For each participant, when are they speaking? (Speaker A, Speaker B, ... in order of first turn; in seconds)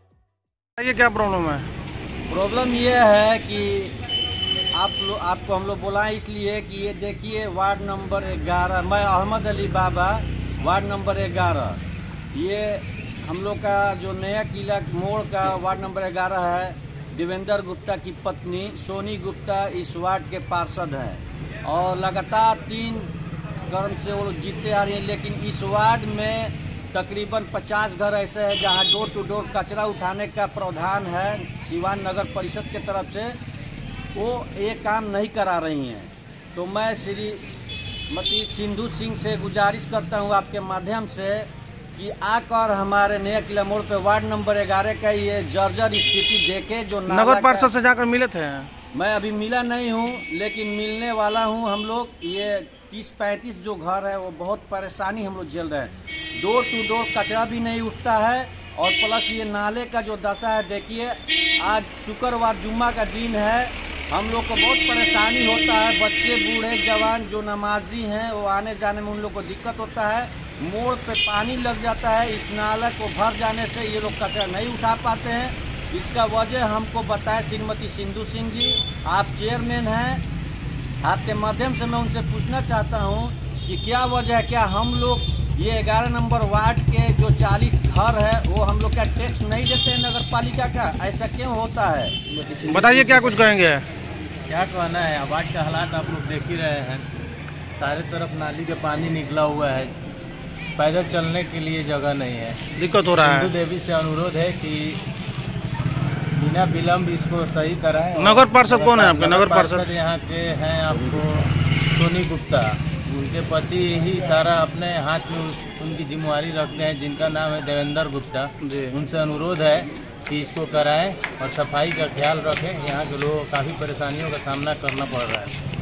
Speaker A: 0.8-1.7, 47.1-48.7, 92.5-93.8, 102.8-103.5, 108.2-109.9, 118.6-119.0
Speaker B: 2.3-4.0, 4.7-11.8, 12.3-23.1, 23.7-33.3, 34.1-37.4, 38.1-47.7, 48.9-80.2, 81.0-92.1
Speaker C: 94.5-97.0, 97.7-99.9, 100.8-105.0, 106.3-125.5